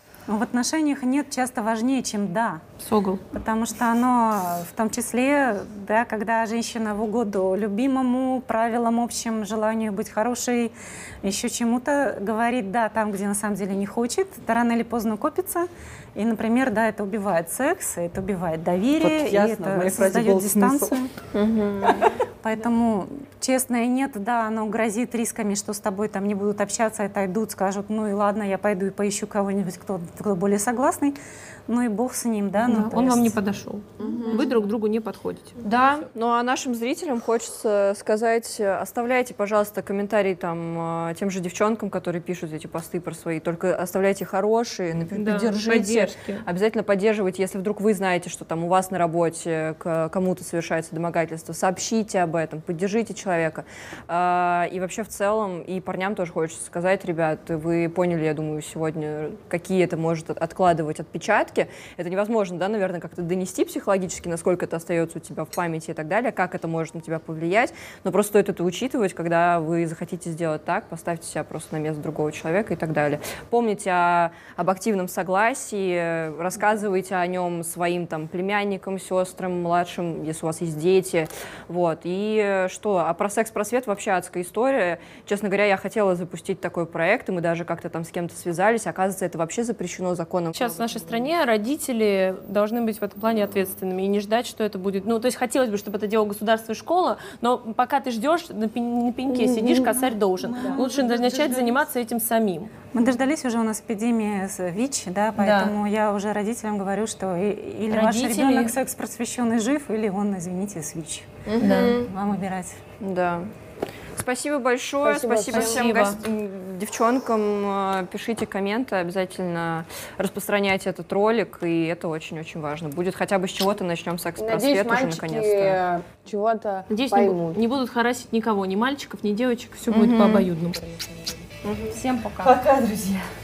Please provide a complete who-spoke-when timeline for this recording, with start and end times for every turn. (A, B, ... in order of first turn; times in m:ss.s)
0:00.3-0:02.6 A
0:02.8-0:03.2 B
0:03.3-0:21.1 A
0:19.0-0:20.9 C
0:21.3-0:22.2 D
0:22.4-0:31.2 A
0:31.7-0:33.4 A
0:32.7-0:35.7 B
0:34.0-0:34.5 D
0:35.6-1:31.3 D
0:45.1-0:46.4 B
1:30.5-1:42.7 B
1:40.5-1:41.8 C
1:42.9-1:51.4 A
1:45.4-1:45.7 B
1:47.9-1:48.7 B
1:51.4-1:52.1 D
1:51.6-1:52.0 B
1:52.0-1:52.8 A
1:53.0-1:53.5 D
1:54.2-2:05.8 D
1:55.0-1:55.9 E
1:55.5-1:56.2 B
2:04.4-2:07.6 E
2:06.9-2:10.9 B
2:09.9-2:10.5 D
2:11.6-2:12.0 D
2:11.9-2:12.6 B
2:12.4-2:13.3 C